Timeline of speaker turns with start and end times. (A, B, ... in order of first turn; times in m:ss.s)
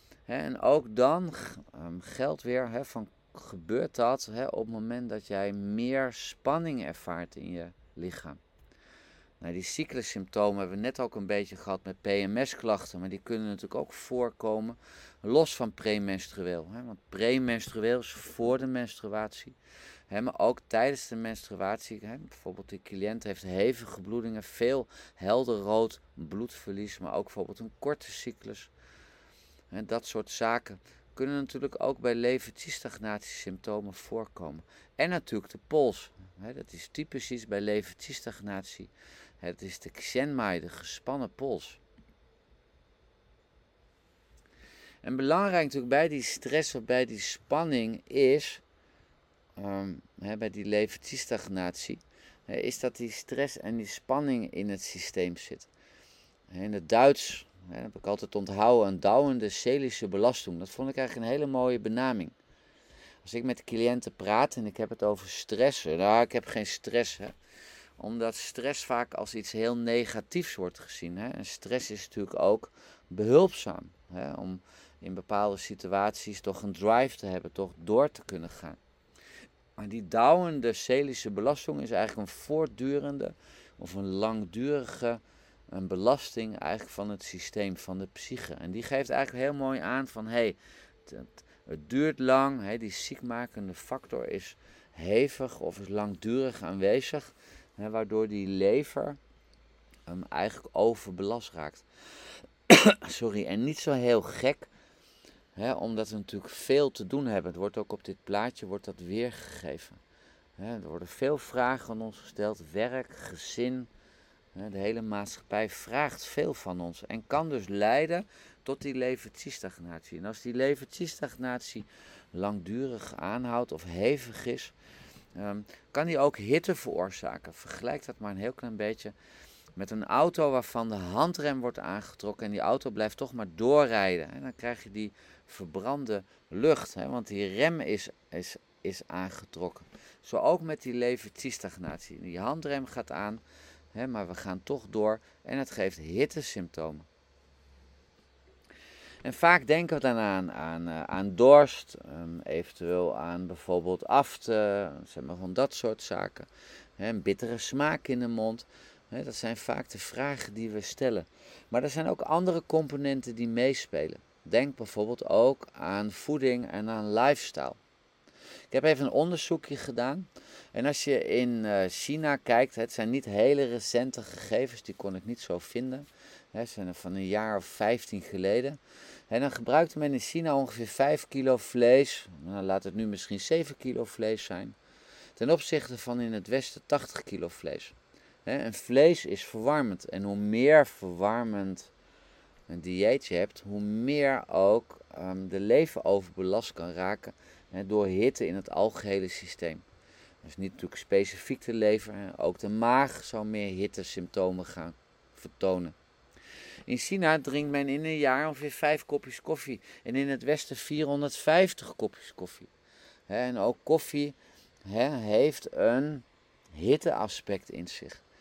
0:00.3-0:08.4 A
0:09.4-0:19.6 A
0:20.1-0:28.7 A
0:29.7-0:41.8 A
0:45.0-0:48.6 A
0:49.6-0:55.7 A
0:56.5-1:02.4 A
1:03.2-1:07.3 A
1:08.0-1:18.8 A
1:19.8-1:39.2 A
1:40.1-1:41.8 A
1:42.7-1:44.7 A
1:45.6-1:50.0 A
1:50.6-1:53.9 A
1:54.6-2:04.7 A
2:05.4-2:09.1 A
2:09.8-2:23.4 A
2:23.9-2:27.1 A
2:29.2-2:47.8 A
2:48.7-2:58.8 A
2:59.3-3:04.8 A
3:05.4-3:08.0 A
3:08.5-3:11.9 A
3:12.7-3:19.8 A
3:20.4-3:26.0 A
3:26.9-3:32.7 A
3:33.3-3:38.2 A